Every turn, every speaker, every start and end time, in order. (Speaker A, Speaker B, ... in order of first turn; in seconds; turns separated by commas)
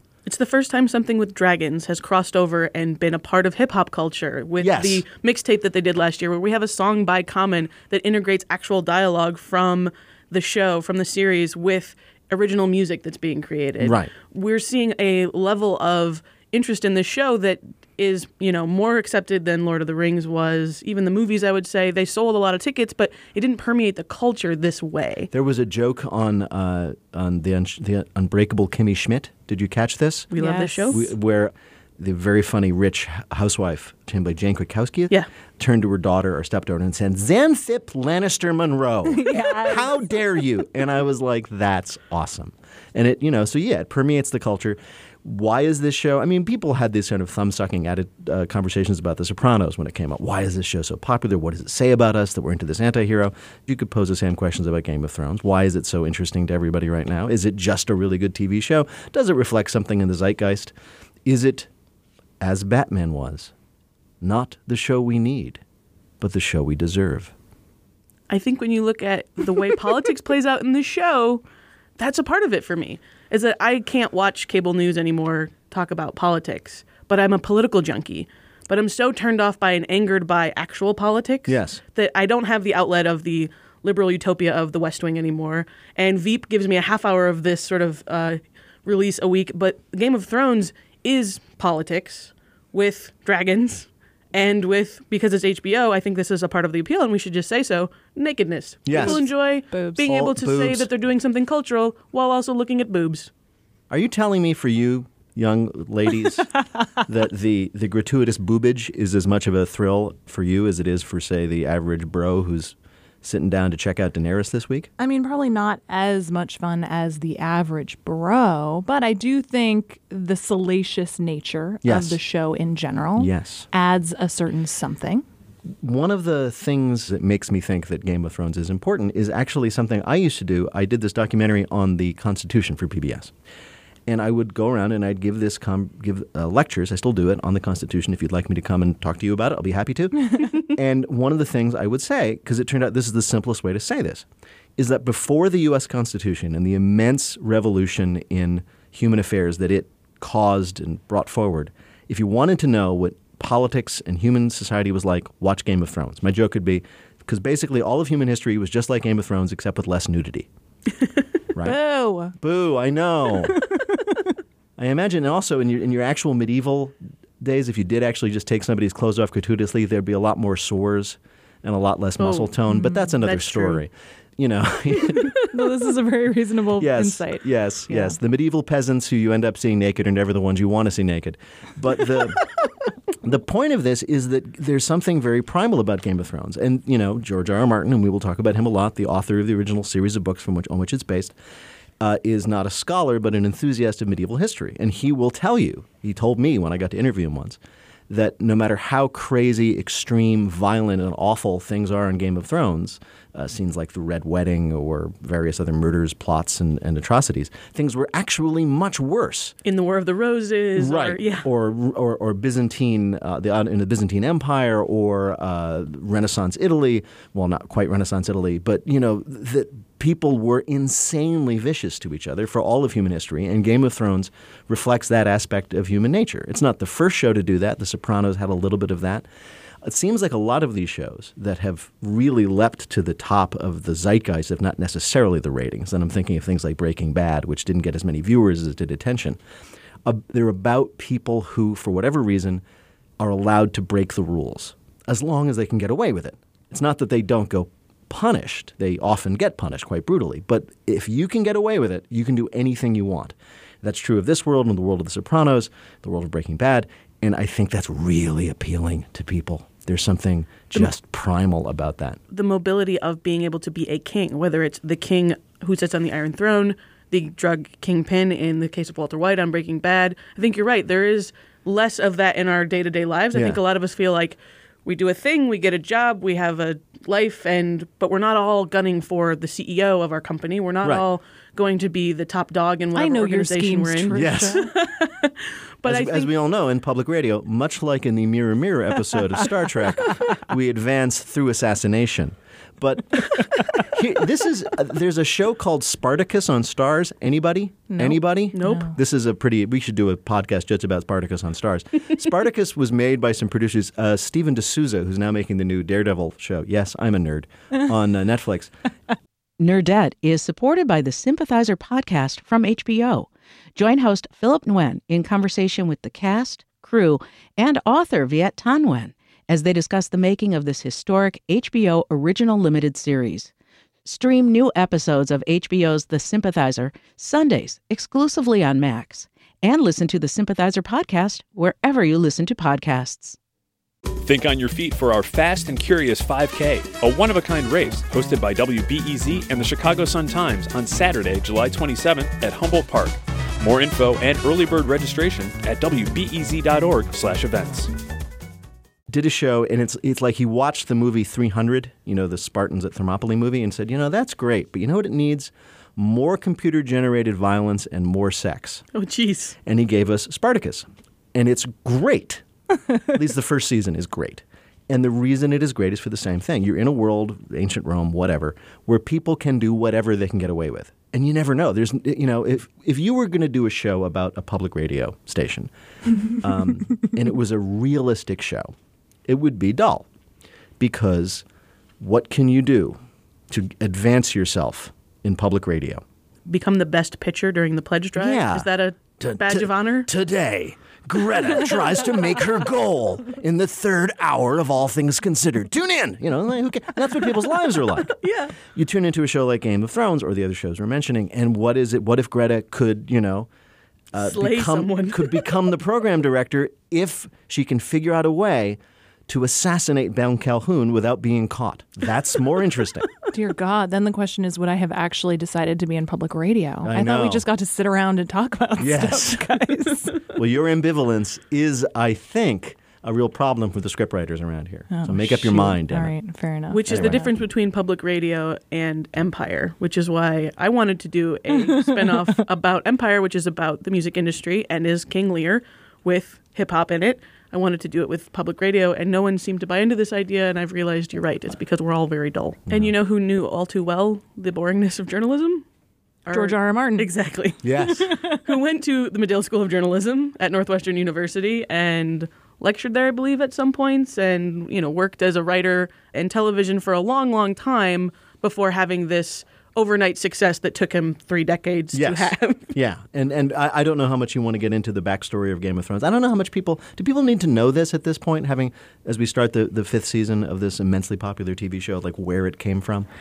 Speaker A: 0.2-25.3, Speaker B: 4.6-5.0, Speaker B: 13.8-14.1, Speaker B: 25.3-30.3, Speaker A: 30.3-31.0, Speaker C: 30.4-31.1, Speaker B: 30.9-61.7, Speaker C: 39.1-40.1, Speaker B: 62.4-63.5, Speaker B: 64.2-65.6, Speaker B: 66.2-67.3, Speaker A: 68.3-71.4, Speaker A: 72.0-103.3, Speaker B: 81.5-81.8, Speaker B: 98.8-99.2, Speaker C: 98.9-100.2, Speaker B: 100.0-100.9, Speaker B: 103.9-106.5, Speaker B: 107.0-114.9, Speaker C: 115.0-125.2, Speaker B: 121.8-122.2, Speaker B: 123.2-123.7, Speaker B: 125.8-133.3, Speaker B: 134.1-144.2, Speaker B: 144.8-160.5, Speaker B: 161.5-161.8, Speaker C: 161.6-162.3, Speaker B: 162.4-163.6, Speaker C: 163.4-164.2, Speaker B: 164.8-175.3, Speaker A: 172.2-172.5, Speaker C: 172.7-173.1, Speaker A: 173.2-173.8, Speaker C: 175.4-178.2, Speaker B: 176.8-182.4, Speaker B: 183.2-191.3, Speaker B: 192.0-209.5, Speaker A: 209.6-211.4, Speaker B: 210.8-229.2, Speaker B: 229.8-239.4, Speaker B: 240.0-242.6, Speaker B: 243.2-262.2, Speaker A: 262.3-286.3, Speaker B: 273.3-273.6, Speaker C: 282.9-284.7, Speaker B: 284.1-284.7, Speaker B: 285.8-308.7, Speaker C: 297.9-299.0, Speaker A: 298.5-298.9, Speaker D: 309.6-323.5, Speaker D: 324.0-333.4, Speaker E: 334.2-347.9, Speaker B: 349.1-358.8, Speaker A: 358.9-359.6, Speaker B: 359.6-362.4, Speaker B: 363.1-375.7, Speaker B: 376.3-378.7, Speaker B: 379.3-380.1, Speaker B: 380.8-381.4, Speaker B: 382.0-383.0, Speaker B: 383.5-386.0, Speaker A: 386.5-390.1, Speaker B: 388.1-388.7, Speaker B: 389.2-403.5, Speaker A: 398.2-398.6, Speaker B: 404.1-413.1, Speaker A: 404.2-405.4, Speaker C: 413.3-420.3, Speaker B: 416.8-417.4, Speaker B: 418.8-419.5, Speaker B: 420.3-426.1, Speaker C: 424.9-427.3, Speaker A: 426.7-445.6, Speaker B: 426.8-427.3, Speaker C: 431.5-432.4, Speaker A: 446.2-462.7, Speaker C: 446.3-447.1, Speaker B: 447.6-448.1, Speaker C: 447.9-448.4, Speaker B: 461.9-473.1